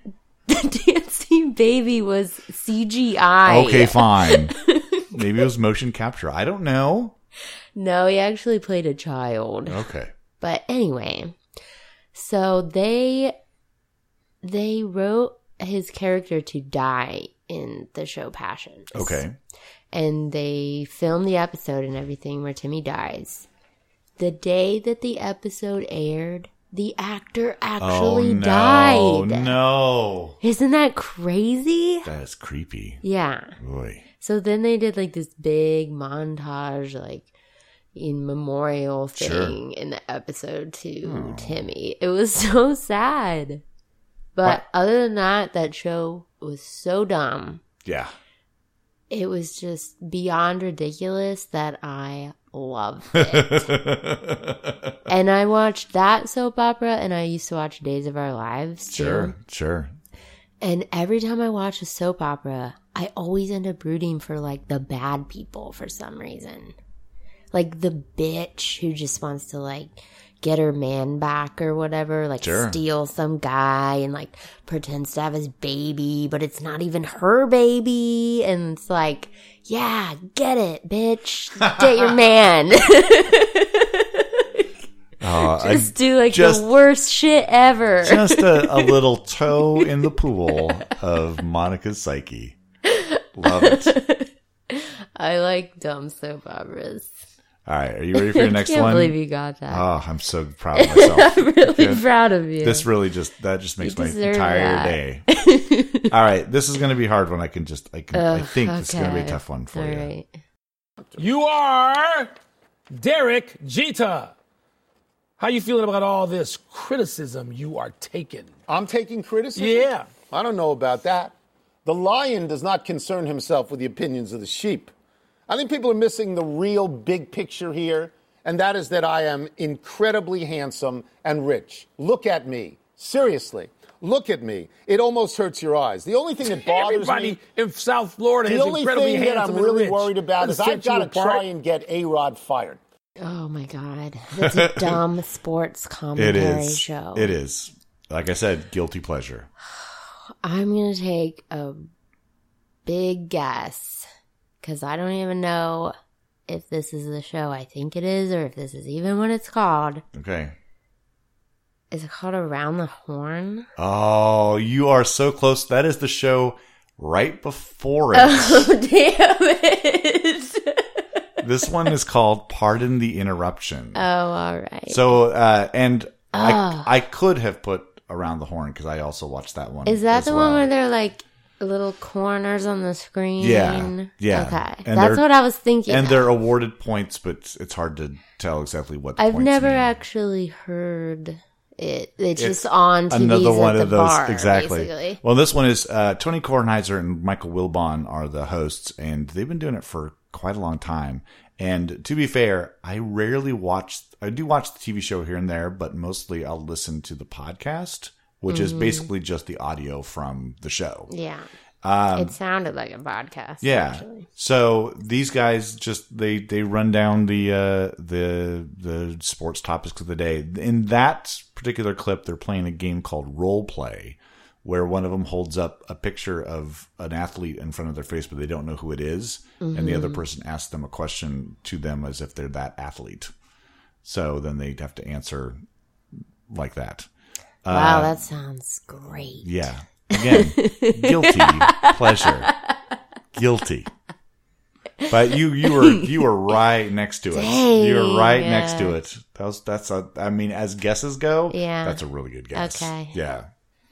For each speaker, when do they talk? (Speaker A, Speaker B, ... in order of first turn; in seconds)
Speaker A: 0.5-5.2, 7.7-9.8, 10.4-11.4, 12.1-13.3, 14.4-19.2, 19.9-23.5, 24.2-29.5, 30.4-32.1, 33.0-33.5, 34.2-37.3, 37.9-43.6, 44.4-47.6, 49.1-53.7, 55.1-59.3, 60.6-66.7, 67.5-84.7, 85.4-89.0, 92.8-97.1, 98.1-99.8, 100.7-102.9, 103.8-106.1, 108.1-110.3, 143.2-147.3, 149.7-151.9, 152.8-154.1, 154.6-155.9, 156.5-160.0, 161.9-163.7, 168.1-171.0, 173.9-175.2, 176.3-176.9, 179.8-186.3, 189.2-195.2, 208.5-209.1, 211.1-211.5, 212.1-214.3, 229.6-230.2, 237.7-239.5, 240.1-242.8, 245.6-246.0, 247.3-249.0, 251.5-253.2
Speaker B: 3.5-4.5, 5.1-7.1, 9.7-10.1, 18.9-19.4, 27.8-30.4, 32.0-33.0, 33.6-34.0, 39.1-39.6, 41.0-41.6, 47.8-48.1, 53.1-54.9, 58.9-59.9, 72.4-72.8, 85.2-86.7, 88.0-92.6, 93.3-94.0, 97.7-99.2, 99.7-102.0, 102.6-105.3, 106.1-110.1, 144.4-145.0, 146.2-149.5, 160.1-160.5, 163.8-168.7, 171.4-174.0, 174.9-180.7, 183.4-185.2, 185.8-189.9, 192.4-211.1, 211.8-212.3, 213.6-233.3, 234.0-235.6, 236.5-237.1, 237.6-238.2, 239.4-242.5, 243.3-243.9, 245.1-253.5
Speaker C: 111.2-112.3, 112.9-114.3, 115.4-118.5, 119.5-120.1, 136.4-141.4
Speaker D: 118.7-121.3, 121.8-124.9, 125.5-137.4, 138.4-142.8